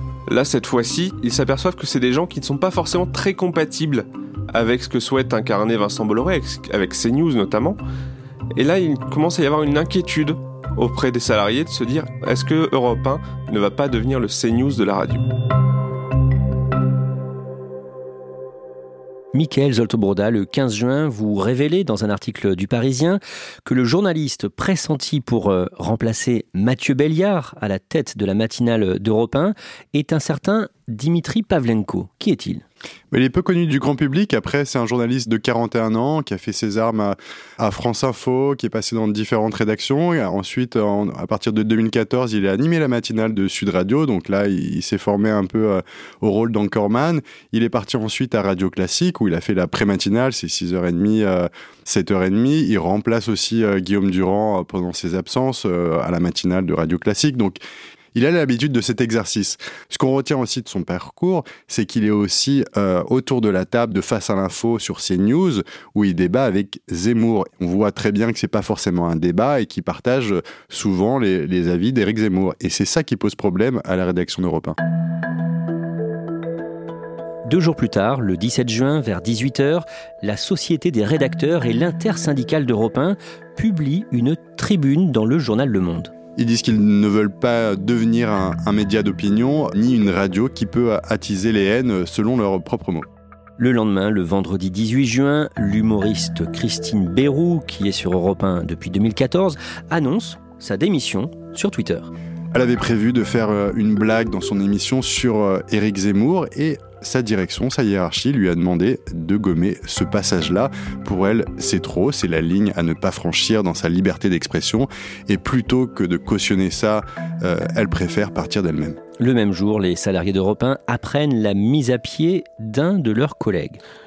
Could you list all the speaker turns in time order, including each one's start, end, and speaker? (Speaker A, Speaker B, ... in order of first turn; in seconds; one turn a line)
Speaker A: 0.3-7.8
Speaker A: 8.5-15.3
Speaker B: 19.3-32.6
Speaker C: 33.1-57.6
Speaker C: 58.1-74.8
Speaker B: 77.5-86.1
Speaker C: 86.3-93.1
Speaker B: 93.6-102.1
Speaker C: 102.5-119.0
Speaker B: 119.2-123.8